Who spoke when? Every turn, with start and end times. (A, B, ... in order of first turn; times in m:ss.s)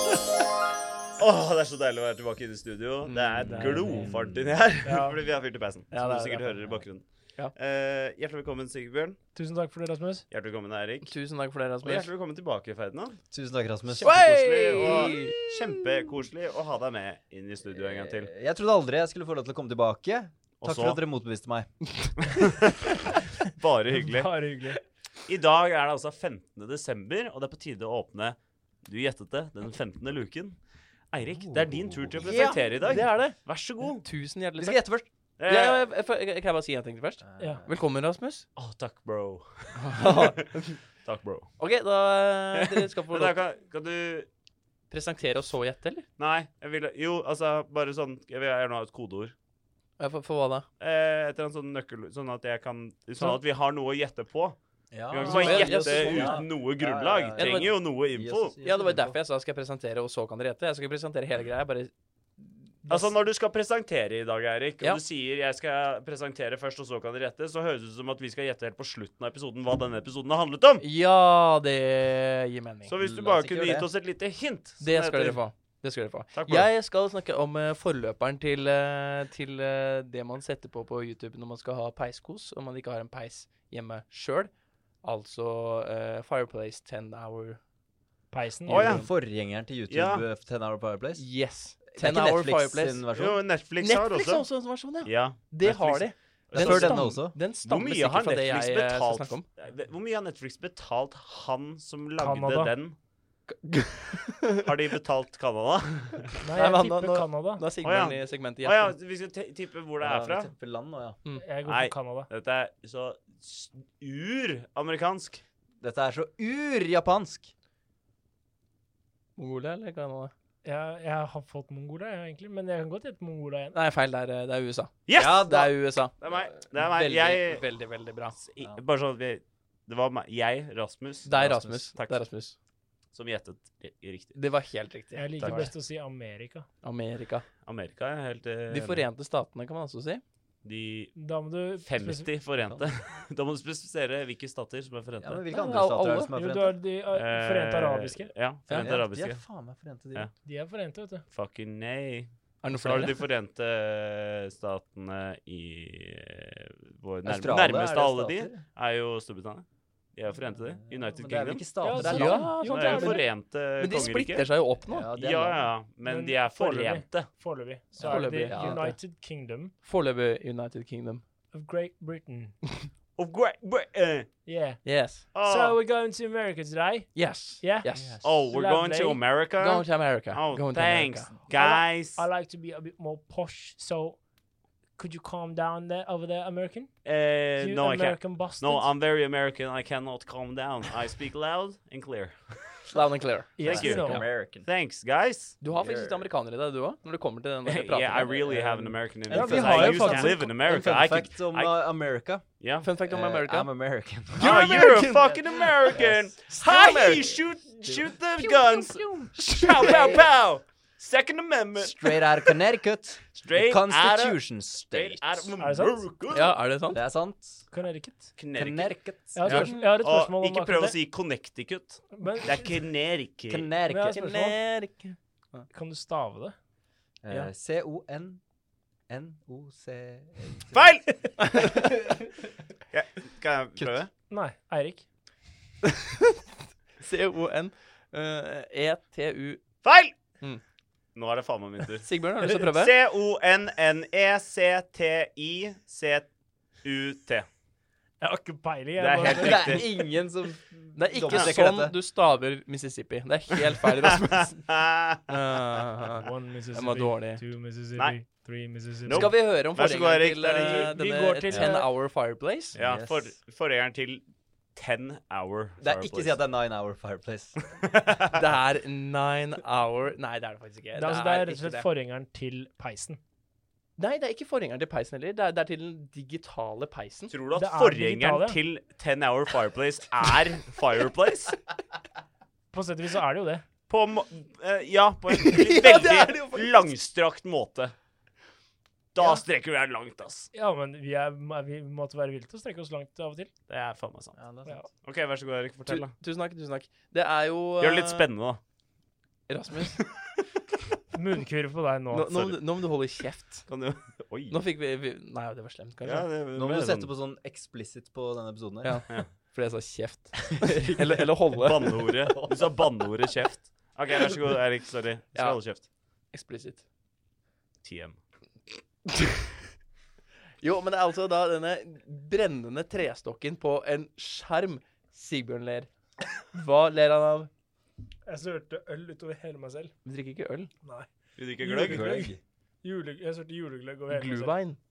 0:01.2-0:09.2 A
0:03.1-0:04.1 B
0:03.5-0:04.6 C
0:04.8-0:05.2 D
0:05.9-0:06.7 B
0:09.4-0:10.3 D
0:10.3-0:11.2 A
0:11.1-0:12.1 B
0:11.8-0:13.2 A
0:13.3-0:15.4 C
0:14.0-0:18.3 A
0:14.0-0:15.4 B
0:17.7-0:21.7 C
0:20.6-0:21.0 A
0:22.2-0:24.4 A
0:24.0-0:24.8 D
0:25.3-0:30.6 A
0:31.1-0:34.0 A
0:31.4-0:33.0 C
0:32.8-0:34.9 B
0:34.6-0:35.1 C
0:35.4-0:35.8 A
0:35.4-0:38.5 B
0:37.2-0:37.7 C
0:38.6-0:40.5 A
0:39.8-0:40.8 B
0:41.0-0:41.5 A
0:41.6-0:43.4 B
0:42.6-0:44.3 A
0:44.9-0:46.1 B
0:46.2-0:49.3 A
0:50.0-0:50.7 B
0:50.8-0:54.6 A
0:54.9-0:59.2 C
0:55.1-0:58.6 A
0:55.2-0:56.5 B
0:57.4-0:57.7 B
0:58.6-1:03.1 B
1:02.9-1:10.8 A
1:10.8-1:12.9 B
1:12.9-1:15.4 A
1:13.0-1:13.9 C
1:14.8-1:24.5 B
1:16.3-1:16.7 A
1:25.0-1:27.6 B
1:28.3-1:29.0 D
1:28.7-1:31.3 C
1:28.7-1:29.1 A
1:29.9-1:30.2 A
1:31.2-1:33.1 B
1:31.9-1:33.4 C
1:33.1-1:34.5 A
1:33.8-1:39.5 B
1:35.0-1:43.0 A
1:36.5-1:37.4 C
1:42.2-1:42.7 D
1:43.5-1:44.7 B
1:44.6-1:46.3 A
1:46.4-1:47.6 D
1:46.5-1:49.0 B
1:47.8-1:50.5 A
1:50.0-1:51.2 C
1:51.4-1:52.3 D
1:51.7-1:55.4 A
1:55.8-1:57.5 C
1:59.4-2:00.3 B
2:00.6-2:03.8 D
2:03.7-2:08.4 B
2:05.1-2:05.4 A
2:05.1-2:05.7 C
2:06.2-2:07.6 A
2:08.4-2:12.2 A
2:11.2-2:12.6 B
2:13.1-2:14.4 A
2:14.4-2:15.7 B
2:15.2-2:16.7 D
2:15.4-2:15.7 A
2:16.8-2:17.5 B
2:17.6-2:19.1 A
2:18.7-2:20.2 B
2:20.6-2:21.2 A
2:21.2-2:22.3 D
2:21.8-2:25.4 A
2:22.6-2:22.9 C
2:25.2-2:26.8 C
2:25.5-2:26.3 B
2:26.4-2:28.3 D
2:27.1-2:29.4 A
2:28.7-2:28.9 B
2:28.8-2:30.3 C
2:30.4-2:31.2 D
2:31.3-2:44.5 A
2:32.6-2:33.2 B
2:37.2-2:38.6 C
2:40.5-2:42.5 C
2:41.8-2:43.3 D
2:42.0-2:45.1 B
2:44.9-2:45.7 C
2:45.2-2:47.3 A
2:46.0-2:49.7 D
2:48.0-2:48.9 C
2:48.0-2:49.0 B
2:49.8-2:51.2 B
2:51.5-2:52.6 D
2:53.2-2:54.3 A
2:54.5-2:59.2 D
2:54.8-2:55.3 B
2:55.3-2:55.8 A
2:57.1-2:58.1 B
2:57.9-2:58.4 C
2:58.2-3:02.2 A
2:59.6-3:01.3 B
3:01.5-3:04.2 D
3:05.0-3:07.0 D
3:07.0-3:12.9 A
3:07.6-3:08.9 D
3:12.9-3:14.2 B
3:13.6-3:14.2 D
3:13.6-3:14.7 C
3:13.6-3:15.6 A
3:15.6-3:18.6 B
3:15.7-3:16.2 C
3:17.7-3:21.8 A
3:18.4-3:25.0 C
3:19.3-3:20.5 D
3:22.6-3:22.9 A
3:22.8-3:23.7 B
3:24.3-3:27.4 B
3:24.4-3:32.5 A
3:27.8-3:28.1 C
3:29.4-3:30.2 B
3:29.8-3:30.2 C
3:31.8-3:35.5 C
3:33.4-3:36.5 A
3:35.6-3:36.0 D
3:36.3-3:37.0 B
3:36.9-3:37.7 C
3:37.7-3:38.4 D
3:38.4-3:43.7 A
3:38.6-3:39.7 C
3:39.4-3:41.0 D
3:39.5-3:40.0 B
3:42.2-3:42.7 D
3:43.5-3:44.2 C
3:43.9-3:44.6 D
3:44.1-3:45.7 B
3:45.7-3:46.6 D
3:47.2-3:48.4 C
3:49.1-3:50.9 C
3:50.7-3:51.4 A
3:51.4-3:51.7 B
3:52.9-3:54.1 A
3:54.3-3:55.1 D
3:57.0-3:59.6 B
3:59.8-4:00.1 A
4:01.2-4:06.3 A
4:02.0-4:02.9 B
4:06.8-4:07.5 A
4:08.2-4:09.8 D
4:09.0-4:09.9 A
4:09.2-4:12.0 C
4:11.0-4:14.7 B
4:14.4-4:15.3 A
4:15.3-4:17.4 B
4:16.2-4:19.3 D
4:19.0-4:20.9 A
4:19.1-4:22.8 B
4:20.6-4:21.9 D
4:22.8-4:23.3 C
4:22.8-4:24.2 A
4:24.8-4:26.4 A
4:25.8-4:27.6 C
4:27.7-4:28.4 A
4:28.3-4:31.9 B
4:31.0-4:33.2 D
4:34.0-4:37.3 B
4:37.3-4:41.6 A
4:37.6-4:38.6 D
4:42.7-4:43.6 D
4:43.9-4:47.9 A
4:45.3-4:46.9 B
4:49.2-4:50.5 A
4:50.5-4:53.5 D
4:53.7-4:54.4 A
4:54.4-4:54.8 C
4:55.0-4:56.1 A
4:55.9-4:58.3 B
4:57.8-4:58.6 A
4:59.5-5:00.1 B
5:01.1-5:02.3 D
5:02.1-5:03.7 B
5:03.7-5:04.6 A
5:04.5-5:06.3 B
5:06.0-5:07.1 A
5:06.5-5:09.1 C
5:08.8-5:11.9 B
5:11.6-5:15.8 A
5:12.3-5:12.8 C
5:15.3-5:15.6 B
5:16.3-5:16.8 B
5:17.8-5:18.2 A
5:20.6-5:25.9 B
5:26.5-5:27.5 B
5:28.3-5:29.9 D
5:30.0-5:30.7 B
5:30.8-5:31.1 D
5:31.4-5:32.3 A
5:31.6-5:32.3 D
5:31.7-5:32.4 C
5:32.8-5:34.6 D
5:34.1-5:34.8 B